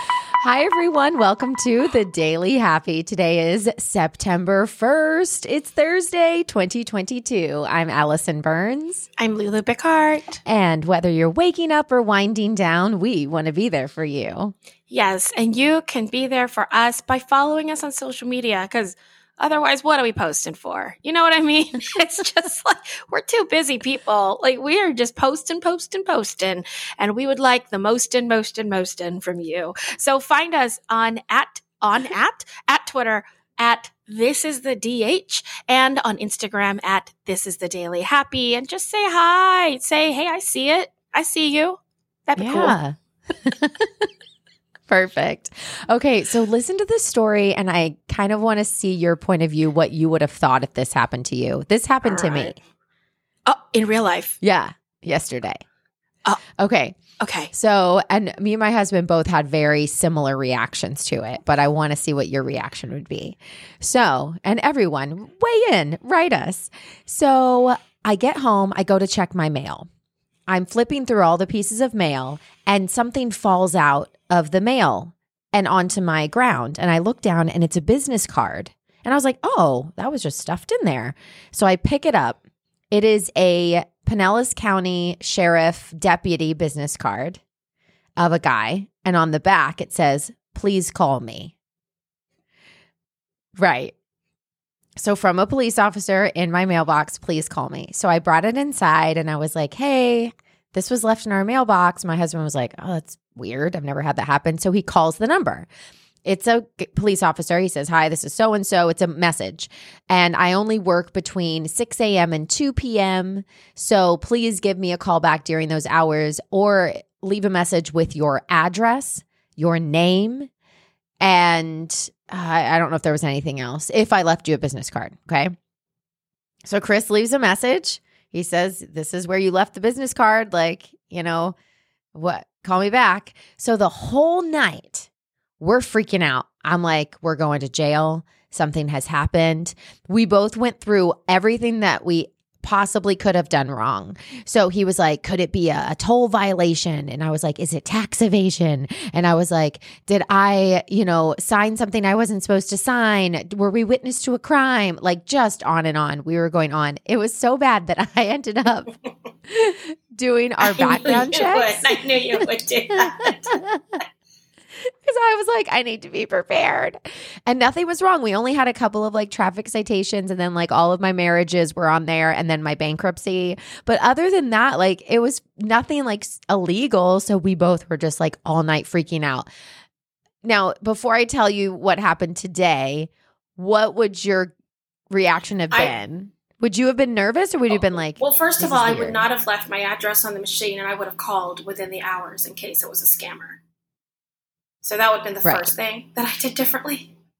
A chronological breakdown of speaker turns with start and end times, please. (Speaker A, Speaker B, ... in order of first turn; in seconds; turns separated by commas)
Speaker A: 0.4-9.1, Speaker B: 9.2-10.4, Speaker A: 10.4-14.5, Speaker B: 14.9-42.8, Speaker A: 42.4-44.1, Speaker A: 44.9-52.6, Speaker B: 52.0-52.5, Speaker B: 53.5-54.4, Speaker A: 54.4-55.6, Speaker A: 56.6-57.0, Speaker B: 57.2-57.5, Speaker A: 57.5-69.9, Speaker A: 70.5-82.4, Speaker A: 82.9-87.4, Speaker A: 88.2-91.5, Speaker A: 93.6-93.9, Speaker A: 95.0-105.7, Speaker A: 106.2-120.5, Speaker A: 121.2-125.5, Speaker A: 126.7-131.6, Speaker A: 132.2-135.1, Speaker A: 135.6-158.9, Speaker A: 159.5-161.9, Speaker B: 160.7-163.6, Speaker A: 163.0-164.0, Speaker A: 165.1-179.5, Speaker A: 180.4-184.5, Speaker A: 185.1-189.3, Speaker B: 187.7-193.6, Speaker B: 194.8-197.1, Speaker A: 195.4-195.7